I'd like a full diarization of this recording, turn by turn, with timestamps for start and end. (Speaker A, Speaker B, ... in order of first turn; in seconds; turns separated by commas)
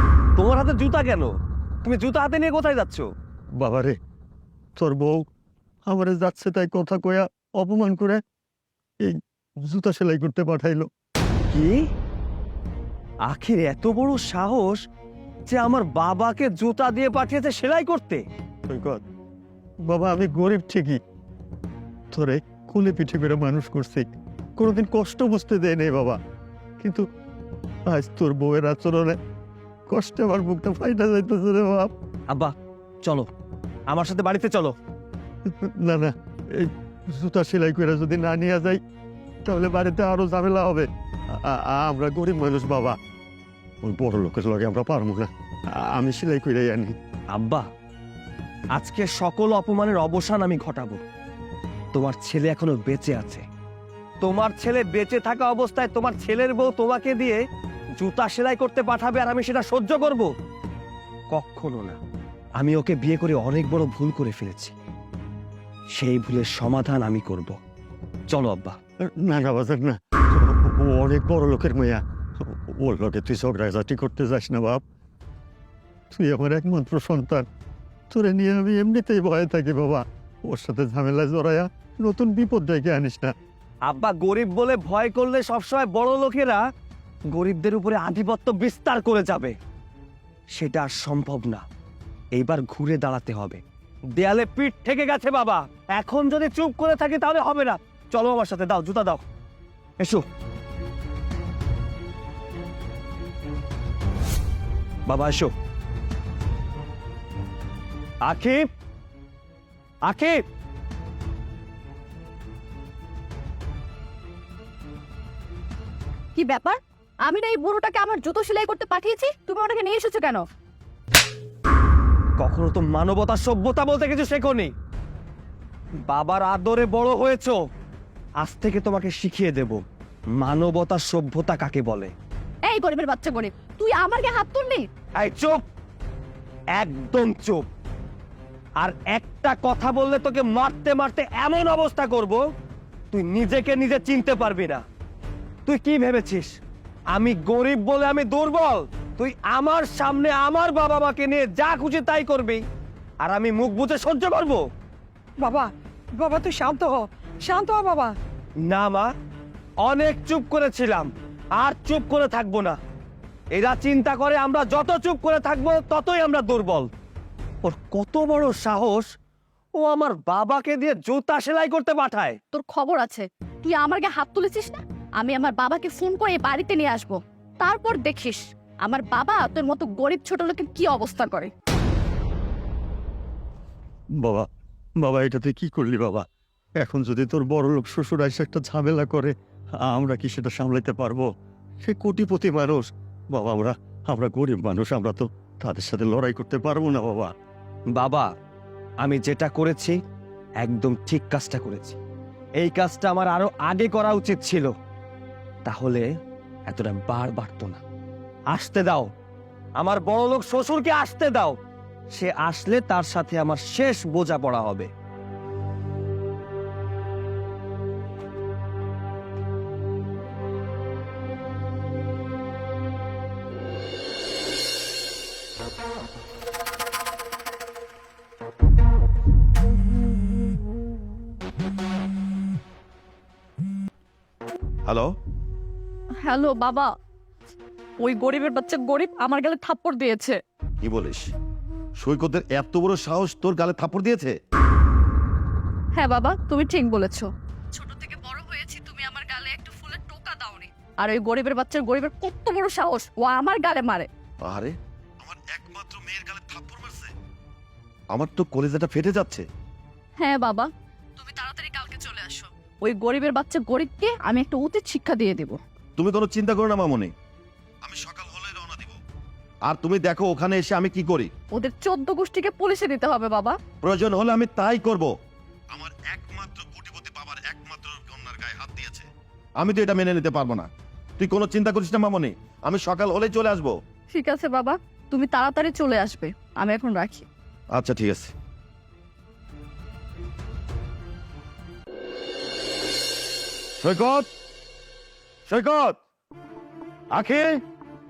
Speaker A: 0.4-3.1, Speaker B: 3.6-4.0, Speaker B: 4.8-5.2, Speaker B: 5.9-8.2, Speaker B: 9.0-10.9, Speaker A: 13.3-14.8, Speaker A: 15.5-18.2, Speaker B: 18.7-19.0, Speaker B: 19.9-21.0, Speaker B: 22.1-24.1, Speaker B: 24.6-26.2, Speaker B: 27.9-29.2, Speaker B: 29.9-31.9, Speaker A: 32.3-33.3, Speaker A: 33.9-34.8, Speaker B: 35.5-38.8, Speaker B: 39.5-40.9, Speaker B: 41.5-43.0, Speaker B: 43.8-47.0, Speaker A: 47.3-47.7, Speaker A: 48.8-51.0, Speaker A: 51.9-53.5, Speaker A: 54.2-57.4, Speaker A: 58.0-60.3, Speaker A: 61.3-62.0, Speaker A: 62.6-64.7, Speaker A: 66.0-67.6, Speaker A: 68.3-68.8, Speaker B: 69.2-74.8, Speaker B: 76.1-77.5, Speaker B: 78.1-83.3, Speaker A: 83.9-86.6, Speaker A: 87.3-89.6, Speaker A: 90.5-91.6, Speaker A: 92.3-93.6, Speaker A: 94.1-99.2, Speaker A: 100.0-100.2, Speaker A: 105.1-105.5, Speaker A: 108.2-108.7, Speaker A: 110.0-110.4, Speaker C: 116.3-120.4, Speaker A: 122.4-124.7, Speaker A: 126.1-127.6, Speaker A: 128.4-129.8, Speaker A: 130.4-132.1, Speaker C: 132.7-134.9, Speaker A: 135.2-135.6, Speaker A: 136.8-137.7, Speaker A: 138.8-142.4, Speaker A: 143.1-144.8, Speaker A: 145.7-146.6, Speaker A: 147.1-152.6, Speaker A: 153.2-154.7, Speaker D: 155.4-158.1, Speaker A: 158.7-159.1, Speaker A: 159.8-162.8, Speaker A: 163.6-166.9, Speaker A: 167.6-169.1, Speaker A: 169.8-172.4, Speaker C: 172.5-181.5, Speaker B: 184.2-184.5, Speaker B: 185.0-186.3, Speaker B: 186.8-189.3, Speaker B: 189.8-191.3, Speaker B: 191.8-197.3, Speaker A: 197.9-198.3, Speaker A: 199.0-200.0, Speaker A: 200.6-202.0, Speaker A: 202.6-204.7, Speaker A: 205.7-206.1, Speaker A: 206.7-207.8, Speaker A: 208.5-209.1, Speaker A: 209.8-211.6, Speaker A: 212.1-214.9, Speaker C: 236.2-236.9, Speaker C: 238.0-240.4, Speaker E: 240.8-241.3, Speaker E: 242.0-244.3, Speaker C: 245.9-254.1, Speaker E: 254.5-257.1, Speaker E: 258.1-259.5, Speaker C: 260.2-265.6, Speaker E: 266.0-267.1, Speaker E: 267.8-269.0, Speaker E: 269.7-271.3, Speaker C: 271.5-273.6, Speaker E: 273.8-275.1, Speaker E: 275.7-279.1, Speaker E: 279.6-280.7, Speaker E: 281.2-283.8, Speaker C: 284.1-287.3, Speaker E: 287.8-288.3, Speaker E: 293.8-294.3, Speaker E: 295.5-296.0, Speaker E: 297.1-297.5